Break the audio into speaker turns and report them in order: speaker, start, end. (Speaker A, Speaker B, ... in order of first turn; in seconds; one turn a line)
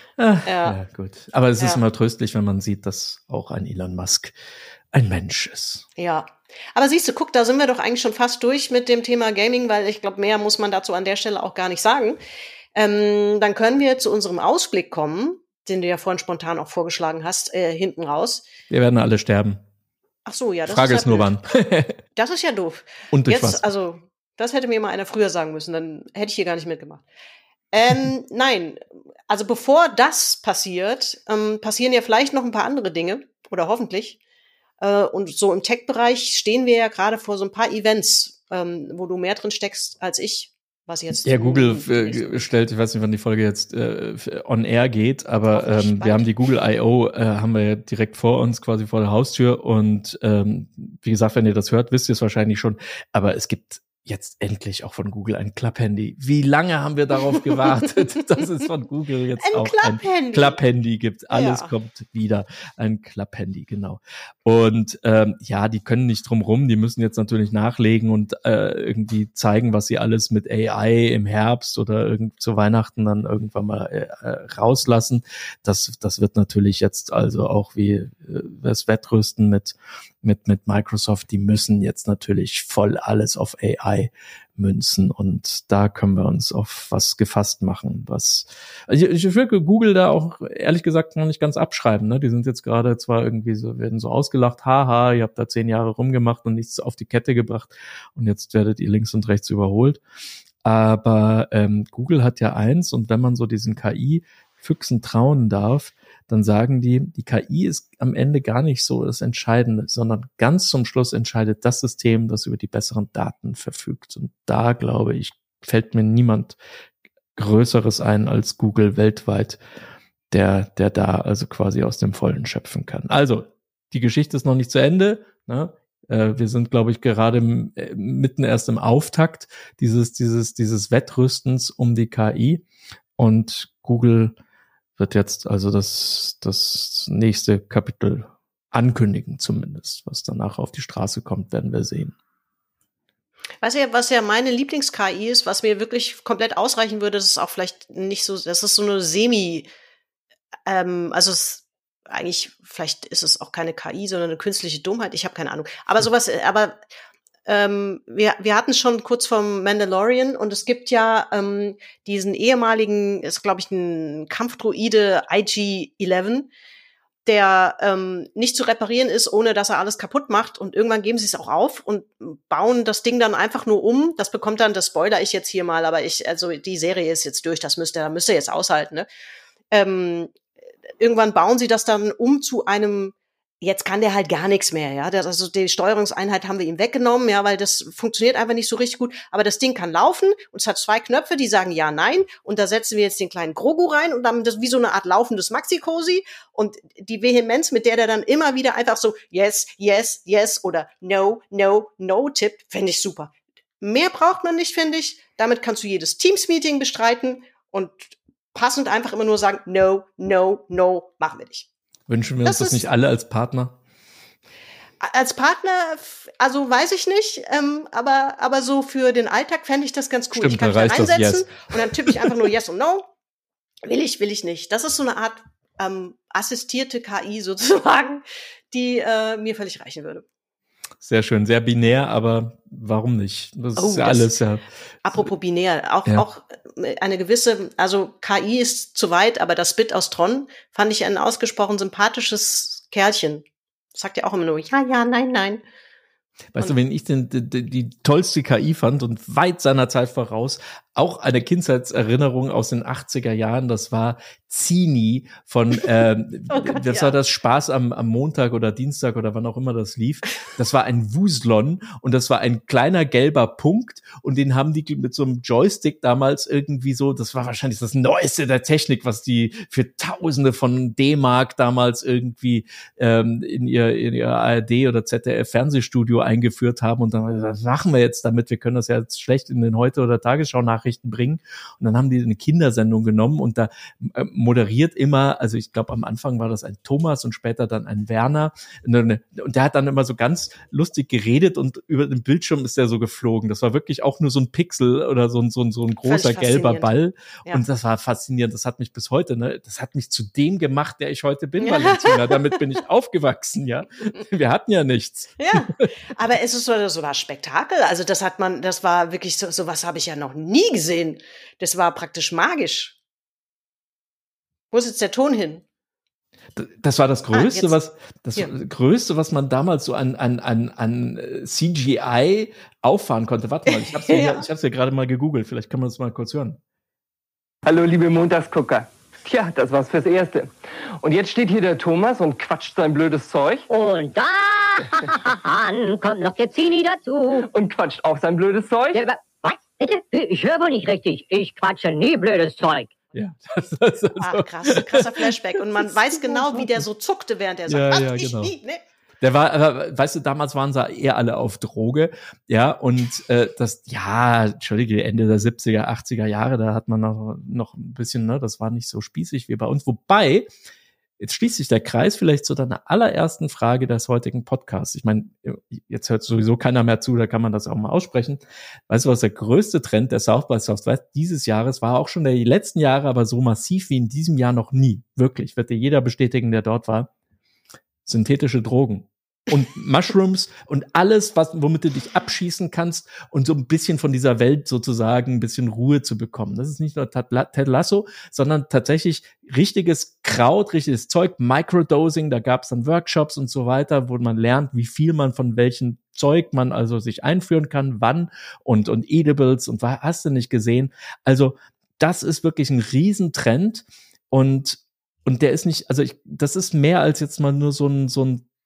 Speaker A: 0.2-4.3
Speaker B: 0.5-0.8
Speaker A: 4.9-5.9
Speaker B: 6.0-12.2
Speaker B: 12.8-18.5
Speaker A: 18.7-19.6
Speaker B: 20.3-21.3
Speaker A: 20.7-22.0
Speaker B: 22.1-27.0
Speaker A: 23.1-23.7
Speaker B: 27.7-34.2
Speaker B: 34.8-42.5
Speaker A: 41.2-100.0
Speaker B: 45.5-46.3
Speaker B: 59.4-60.6
Speaker B: 61.3-61.7
Speaker A: 100.6-116.6
Speaker A: 117.4-119.6
Speaker A: 120.3-132.6
Speaker A: 133.2-134.3
Speaker A: 135.0-142.1
Speaker B: 143.6-149.7
Speaker B: 150.7-156.8
Speaker B: 157.5-166.5
Speaker B: 167.2-179.1
Speaker B: 179.7-180.3
Speaker B: 181.0-211.7
Speaker A: 212.1-213.8
Speaker B: 212.4-212.9
Speaker B: 215.0-223.1
Speaker A: 220.3-222.4
Speaker B: 223.8-230.2
Speaker A: 231.0-234.6
Speaker B: 233.8-234.3
Speaker B: 235.0-245.6
Speaker A: 246.5-305.9
Speaker B: 256.5-257.2
Speaker B: 296.1-296.9
Speaker B: 301.6-302.6
Speaker B: 305.4-313.0
Speaker B: 314.7-315.6
Speaker A: 316.6-326.6
Speaker B: 317.3-317.8
Speaker B: 323.7-324.5
Speaker C: 327.6-333.7
Speaker D: 333.7-337.4
Speaker C: 337.5-339.3
Speaker D: 338.9-342.9
Speaker A: 343.1-346.9
Speaker B: 344.2-348.8
Speaker A: 347.7-348.5
Speaker A: 349.2-360.5
Speaker A: 361.2-377.1
Speaker A: 378.1-408.5